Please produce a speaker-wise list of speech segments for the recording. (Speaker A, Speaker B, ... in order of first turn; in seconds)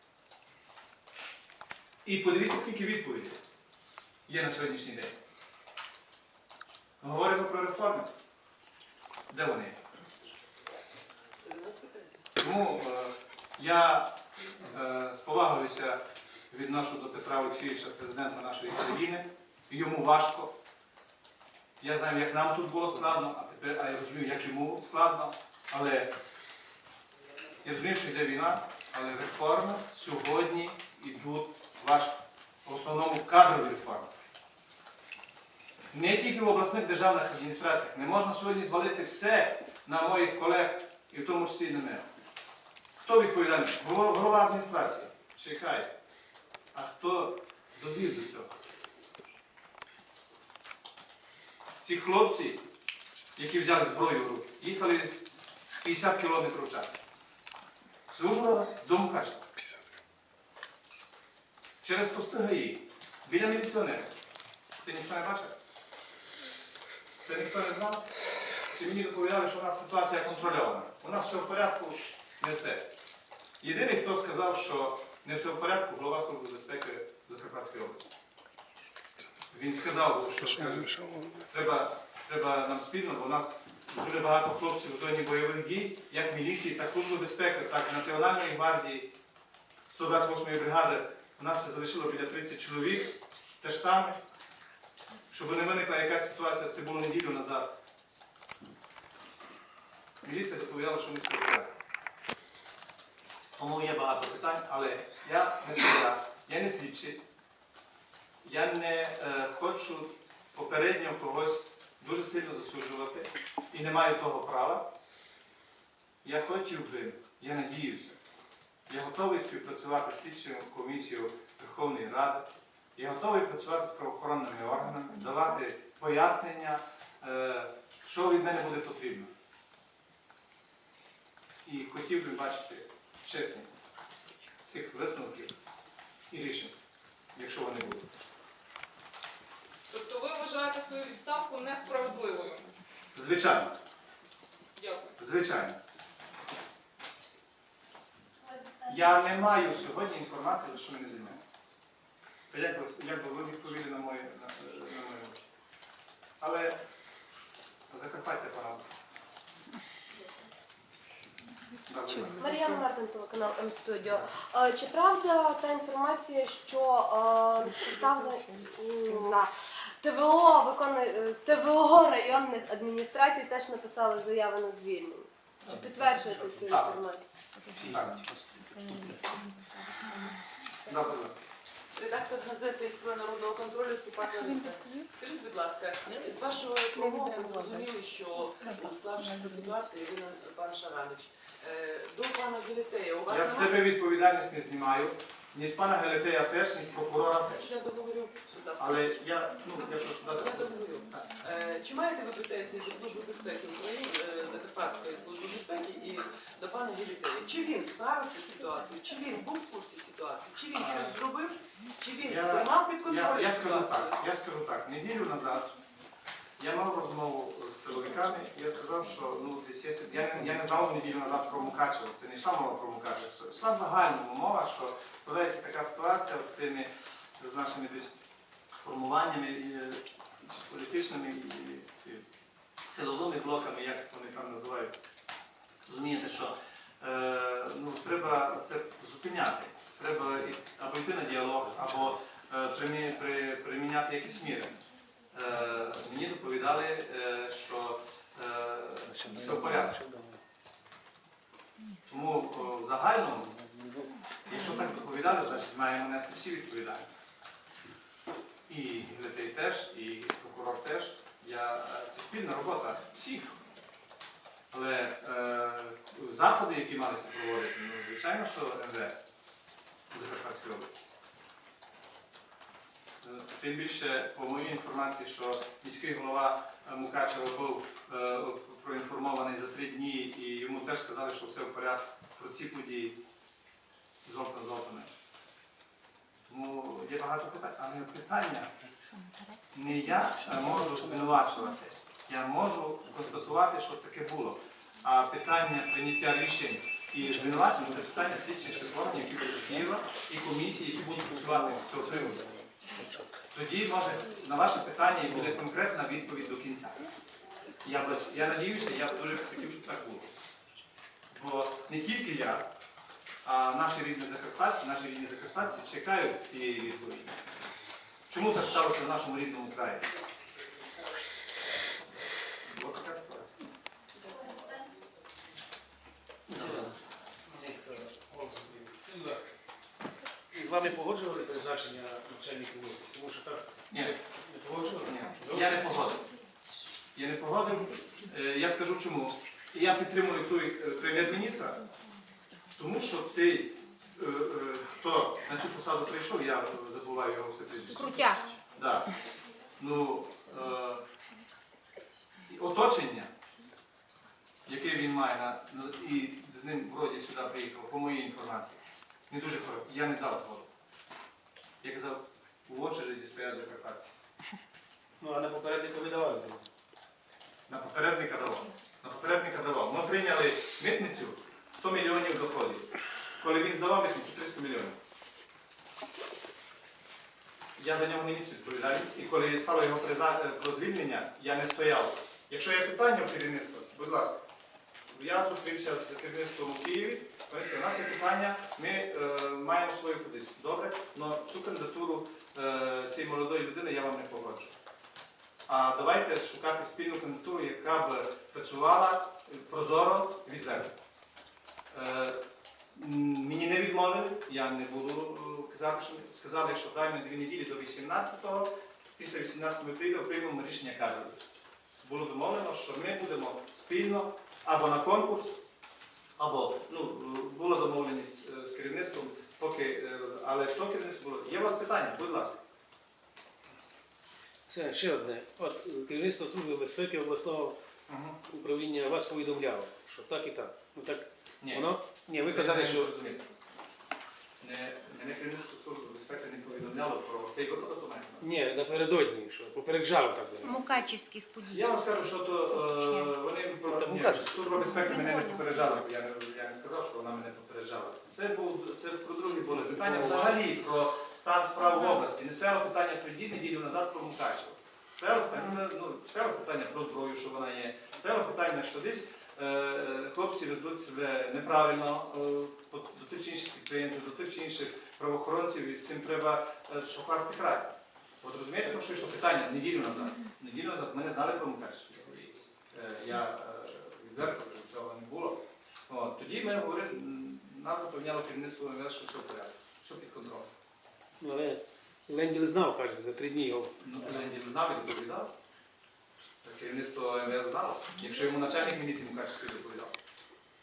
Speaker A: 2.0-3.4, 4.3-5.2, 7.0-8.1, 9.3-9.8, 12.4-20.6, 21.8-26.1, 27.6-34.1, 35.9-42.1, 43.0-45.9, 46.7-48.5, 51.8-52.6, 53.4-55.2, 55.8-57.0, 58.1-59.5, 61.8-64.1, 64.8-65.5, 67.2-68.0, 68.7-72.9, 73.6-78.1, 79.5-89.1, 89.9-94.2, 95.3-97.7, 100.2-101.7, 103.5-107.2, 108.4-114.9, 116.2-118.2, 118.9-129.3, 131.6-133.8, 134.6-135.5, 136.3-136.7, 137.3-138.1, 143.1-143.8, 145.2-145.8, 148.8-151.4, 152.5-155.4, 156.4-156.8, 157.9-159.0, 161.9-162.5, 164.0-164.3, 175.6-177.0, 177.9-178.2, 180.8-181.4, 193.3-197.7, 198.8-201.2, 210.7-211.2, 212.2-215.7, 216.6-228.1, 228.8-232.2, 232.9-234.9, 235.8-244.7, 245.3-249.9, 252.1-253.5, 254.4-257.1, 258.7-263.6, 264.7-269.3, 270.1-271.0, 273.2-283.2, 284.2-285.1, 286.5-288.7, 289.7-302.5, 303.5-307.1, 307.8-310.3, 311.3-312.7, 313.4-317.4, 318.3-320.1, 322.7-323.6, 326.5-326.9, 333.9-334.2, 335.0-336.2, 337.1-341.8, 342.8-349.1, 349.8-351.0, 352.4-353.3, 354.6-360.7, 361.8-364.1, 367.7-374.9, 377.8-384.4, 385.1-394.7, 395.7-400.9, 401.9-411.4, 412.0-415.6, 416.4-422.6, 428.1-428.4, 431.6-431.9, 432.4-433.5, 434.6-438.5, 441.6-480.7, 484.0-485.5, 486.6-490.1
Speaker B: 11.4-12.2, 181.9-193.8, 197.5-199.2, 200.3-214.2
Speaker C: 80.8-81.3, 177.7-179.3, 249.1-250.4, 253.3-254.5, 290.5-291.5, 293.1-293.5, 297.2-299.9, 301.0-303.4, 305.3-305.6, 326.5-326.9, 327.5-329.6, 330.5-335.9, 365.2-366.7, 424.7-427.8, 428.4-433.3, 438.4-440.9, 443.9-444.9, 449.9-450.6, 481.4-484.0
Speaker D: 139.9-142.7, 144.8-145.1
Speaker E: 162.1-162.8, 167.7-169.3, 177.5-180.3, 184.4-184.9, 188.6-189.8, 348.0-348.4, 440.6-443.3
Speaker F: 162.4-177.4, 187.0-187.7, 445.1-445.6